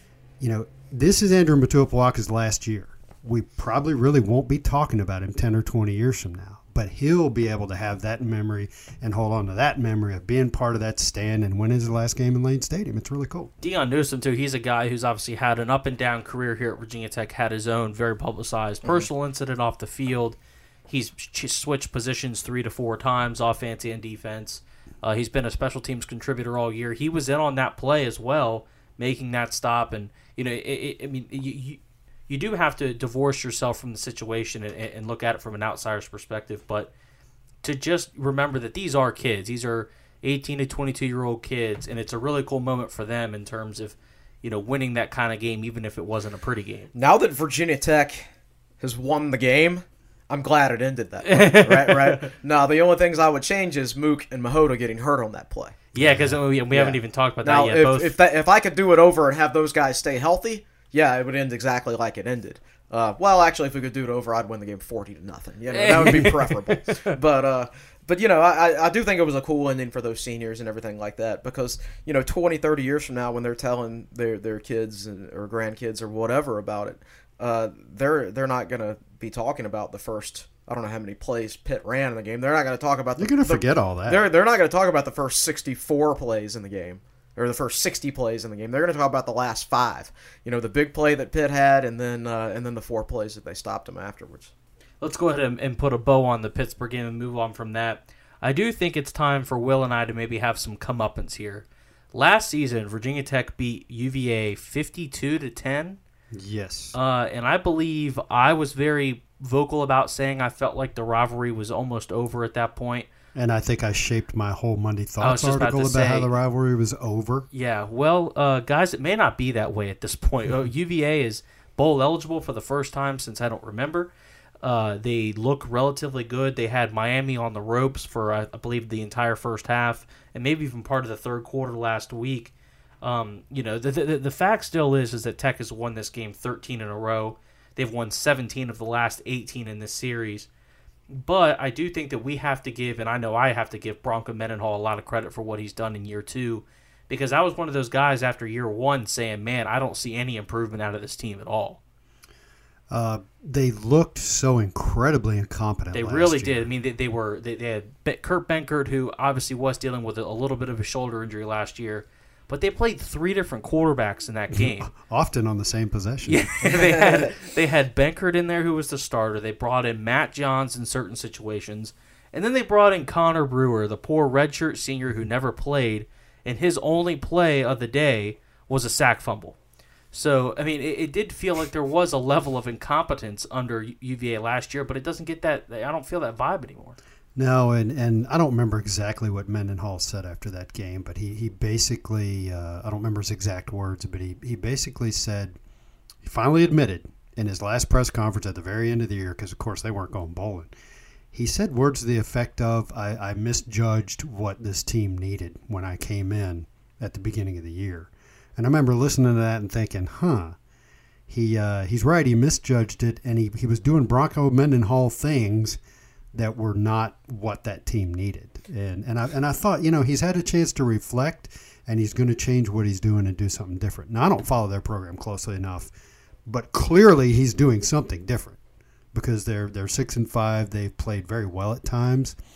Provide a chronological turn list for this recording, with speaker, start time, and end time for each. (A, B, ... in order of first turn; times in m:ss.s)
0:00.4-0:13.5 A
0:13.6-0:36.9 B
0:18.8-0:19.1 C
0:37.6-0:46.9 B
0:46.9-0:48.3 C
0:48.8-0:55.9 C
0:51.2-0:52.3 B
0:55.9-0:58.1 B
0:56.0-0:56.4 A
0:56.7-1:34.5 C
1:05.7-1:07.2 B
1:23.2-1:24.3 A
1:35.0-1:46.0 B
1:46.3-1:47.0 A
1:46.9-1:53.1 B
1:53.3-1:57.5 A
1:55.2-1:56.3 B
1:57.5-2:04.1 B
2:04.6-2:20.5 B
2:21.1-2:31.8 B
2:32.9-2:36.7 A
2:35.9-2:44.9 B
2:44.5-2:46.5 A
2:46.3-2:59.6 B
2:46.6-2:47.3 C
3:00.1-3:07.0 B
3:07.4-3:15.6 A
3:16.2-3:20.7 A
3:21.3-3:30.6 A
3:31.3-3:35.8 A
3:36.3-3:45.9 A
3:46.5-3:48.6 A
3:49.1-3:52.4 A